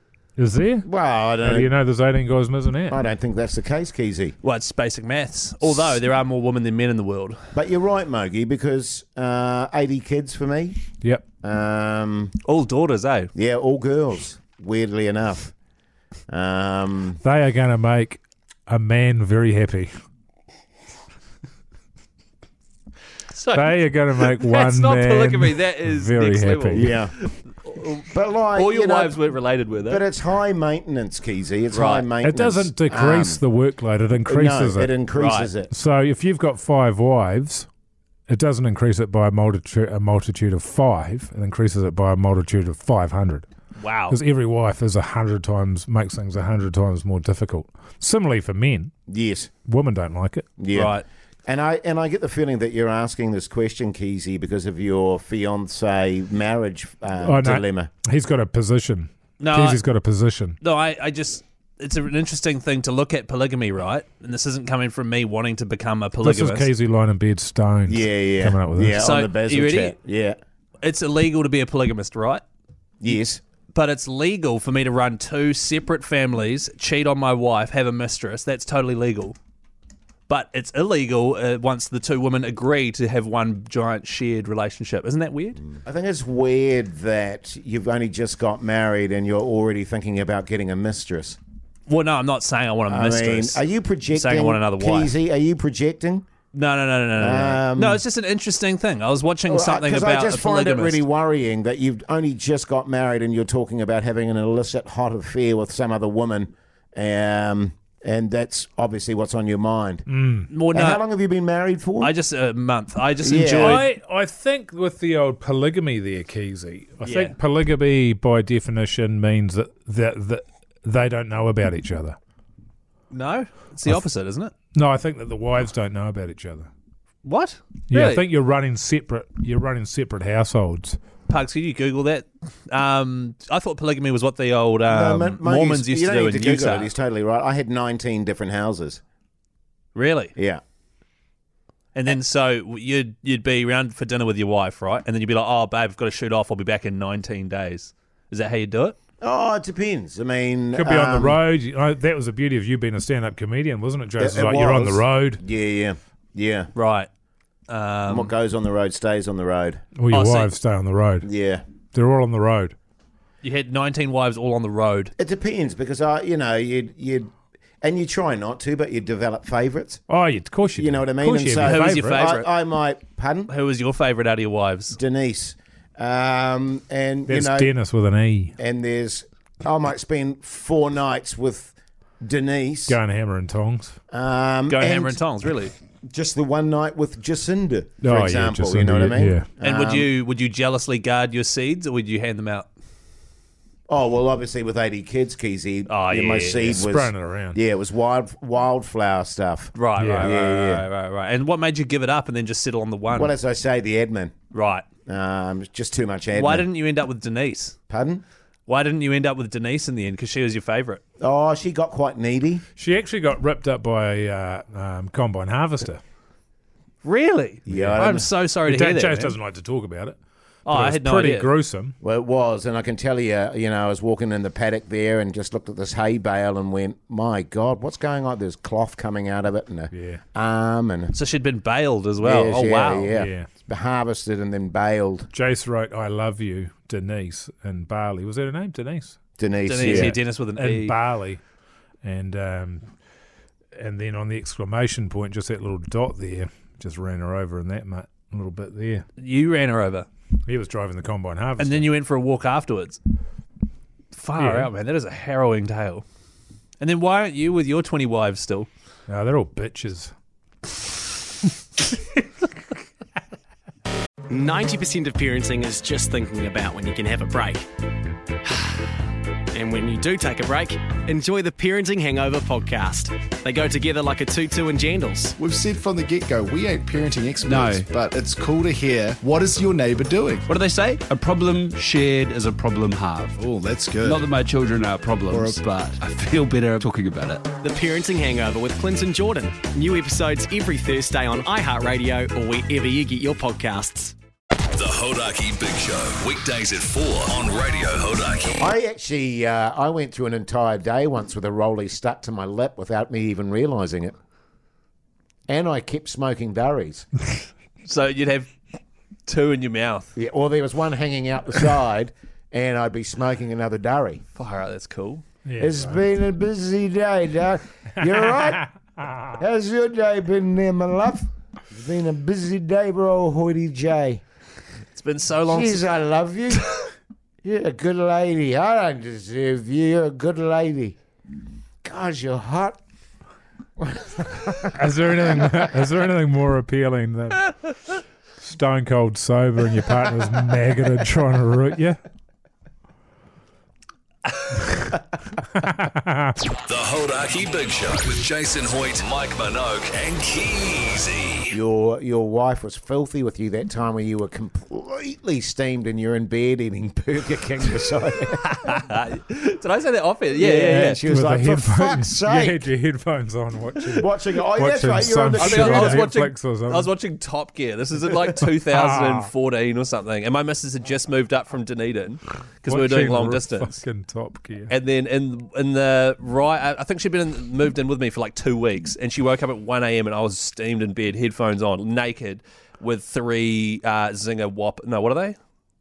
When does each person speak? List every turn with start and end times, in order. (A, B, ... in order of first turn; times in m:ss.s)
0:00.4-0:00.9 A
0:00.8-0:01.7 B
0:01.4-0:03.0 A
0:02.9-0:04.4 B
0:04.4-0:07.4 C
0:07.5-0:10.8 B
0:11.4-0:12.4 B
0:12.4-0:13.3 C
0:13.4-0:15.5 B
0:16.3-0:17.2 B
0:17.2-0:19.9 A
0:23.3-0:30.0 C
0:23.5-0:26.9 A
0:26.7-0:27.1 B
0:28.1-0:29.2 B
0:29.9-0:33.4 B
0:31.7-0:32.1 C
0:32.2-0:35.0 A
0:34.3-0:35.7 B
0:35.2-0:35.5 C
0:35.6-0:37.7 A
0:38.3-0:43.5 A
0:43.8-0:44.2 C
0:44.1-0:48.9 A
0:49.1-0:49.5 B
0:49.6-0:50.6 A
0:50.6-0:57.9 B
0:50.7-0:51.0 C
0:57.2-1:00.6 A
0:59.4-0:59.8 C
1:00.6-1:06.7 C
1:06.2-1:09.0 A
1:07.9-1:10.4 B
1:09.0-1:10.0 C
1:10.8-1:12.4 C
1:13.0-1:13.4 B
1:13.7-1:19.4 C
1:20.3-1:25.6 C
1:25.8-1:31.4 B
1:31.9-1:35.1 C
1:32.9-1:36.3 B
1:36.5-1:41.0 C
1:37.2-1:38.0 B
1:39.5-1:50.1 B
1:50.1-1:50.5 A
1:50.5-1:51.0 C
1:50.7-1:52.1 B
1:52.0-1:53.9 C
1:53.2-1:53.8 B
1:53.6-2:02.2 A
1:57.0-1:57.4 C
2:03.1-2:04.5 C
2:04.7-2:06.7 A
2:07.2-2:08.3 C
2:07.9-2:11.0 A
2:11.3-2:16.9 C
2:14.9-2:19.0 B
2:20.0-2:20.3 C
2:20.4-2:20.6 B
2:22.0-2:29.0 C
2:29.2-2:31.4 B
2:30.7-2:35.4 A
2:34.2-2:36.7 B
2:36.8-2:37.1 C
2:37.7-2:38.3 C
2:38.1-2:39.8 B
2:40.0-2:41.3 A
2:40.1-2:40.5 C
2:41.2-2:41.6 B
2:41.9-2:42.8 A
2:43.4-2:45.1 C
2:45.2-2:47.3 B
2:47.8-2:50.0 B
2:50.1-2:52.2 A
2:50.8-2:53.5 B
2:51.6-2:52.5 C
2:53.5-2:55.0 C
2:55.0-2:57.7 B
2:57.3-2:58.6 A
2:58.6-3:03.0 B
3:02.9-3:04.0 A
3:04.1-3:05.2 B
3:04.7-3:05.7 C
3:06.1-3:10.1 B
3:08.0-3:09.5 A
3:09.6-3:12.7 C
3:13.9-3:20.9 B
3:15.9-3:16.9 C
3:16.8-3:17.6 A
3:19.8-3:23.4 C
3:20.0-3:20.3 A
3:23.1-3:24.3 B
3:24.5-3:24.8 C
3:25.1-3:26.7 B
3:26.4-3:27.8 C
3:27.9-3:28.2 B
3:28.7-3:31.0 C
3:31.2-3:32.6 B
3:32.8-3:36.0 A
3:37.0-3:39.4 C
3:37.7-3:38.3 B
3:37.7-3:38.1 A
3:38.7-3:42.0 A
3:40.7-3:41.5 C
3:42.0-3:51.1 B
3:49.9-3:50.2 A
3:51.1-3:53.1 C
3:52.2-3:55.3 B
3:53.1-3:53.5 A
3:55.3-3:59.2 A
3:59.4-4:00.2 B
3:59.7-4:01.0 C
3:59.8-4:01.4 A
4:02.0-4:02.9 A
4:03.8-4:09.1 A
4:09.2-4:10.1 C
4:10.5-4:11.9 A
4:11.6-4:13.0 C
4:14.1-4:16.0 C
4:14.4-4:14.7 A
4:16.8-4:18.7 C
4:19.1-4:20.1 A
4:24.3-4:27.6 D
4:29.5-4:35.4 D
4:35.4-4:40.6 E
4:37.5-4:37.8 F
4:40.6-4:43.4 F
4:43.4-4:44.3 E
4:44.0-4:47.5 F
4:45.3-4:45.6 E
4:47.6-4:54.2 D
4:54.7-4:58.5 G
4:58.6-5:04.1 B
5:05.5-5:07.1 B
5:07.8-5:08.6 C
5:09.3-5:10.1 C
5:10.2-5:14.2 B
5:14.4-5:15.2 C
5:15.4-5:16.0 A
5:15.6-5:18.7 B
5:18.0-5:18.6 A
5:19.3-5:24.2 B
5:25.0-5:25.8 C
5:25.5-5:26.9 B
5:27.4-5:31.0 B
5:31.8-5:32.8 B
5:33.8-5:34.7 B
5:34.7-5:37.5 A
5:38.4-5:42.0 A
5:44.6-5:46.5 A
5:46.6-5:51.6 G
5:51.5-5:58.4 B
5:58.4-6:01.1 C
6:00.4-6:02.7 B
6:01.0-6:06.9 A
6:04.0-6:06.1 B
6:05.3-6:13.8 C
6:08.4-6:09.3 A
6:12.7-6:14.7 A
6:14.7-6:25.4 C